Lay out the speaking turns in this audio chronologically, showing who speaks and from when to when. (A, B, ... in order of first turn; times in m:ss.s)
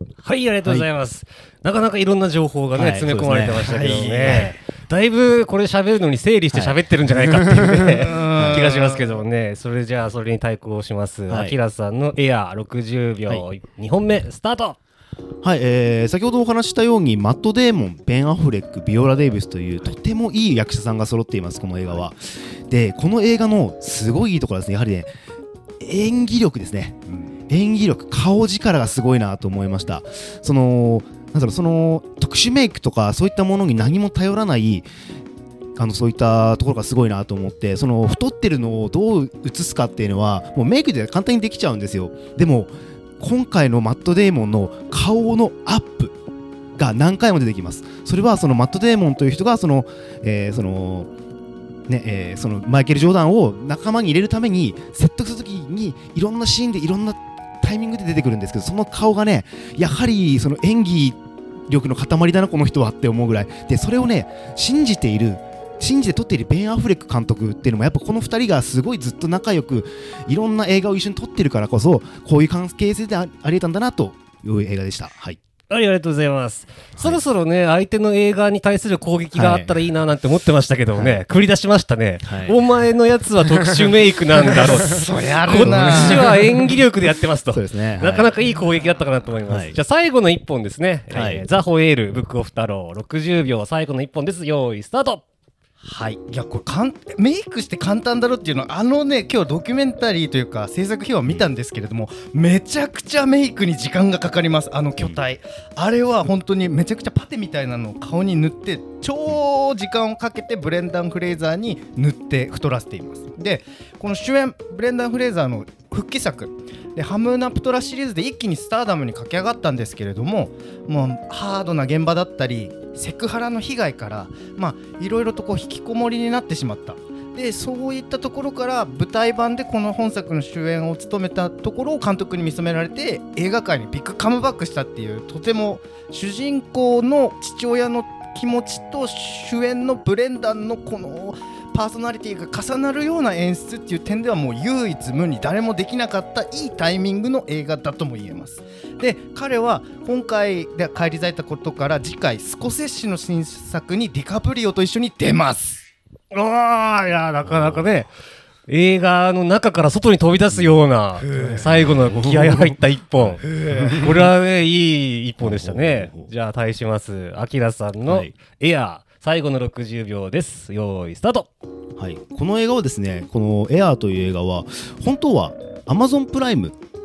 0:00.2-0:14.8 A
0:00.6-0:00.9 B
0:02.7-0:04.5 B
0:03.6-0:04.6 C
0:06.5-0:08.7 B
0:07.8-0:09.2 C
0:11.3-0:11.5 B
0:15.4-0:25.1 B
0:25.8-0:34.9 B
0:27.1-0:27.3 C
0:35.8-0:46.1 B
0:46.8-0:51.1 B
0:51.9-1:15.4 B
1:15.7-1:35.2 A
1:17.0-1:17.2 B
1:19.3-1:19.8 B
1:20.9-1:21.2 B
1:22.2-1:22.6 B
1:24.5-1:26.4 C
1:24.5-1:25.0 B
1:25.6-1:26.4 B
1:27.5-1:28.3 B
1:29.5-1:29.8 B
1:31.1-1:31.4 B
1:35.8-2:35.8 C
2:36.3-2:38.1 A
2:37.4-2:38.0 B
2:38.7-2:51.5 A
2:40.5-2:40.8 B
2:41.2-2:41.9 C
2:41.9-2:44.0 B
2:43.4-2:44.1 C
2:45.4-2:46.3 B
2:48.1-2:48.3 B
2:52.0-2:56.7 B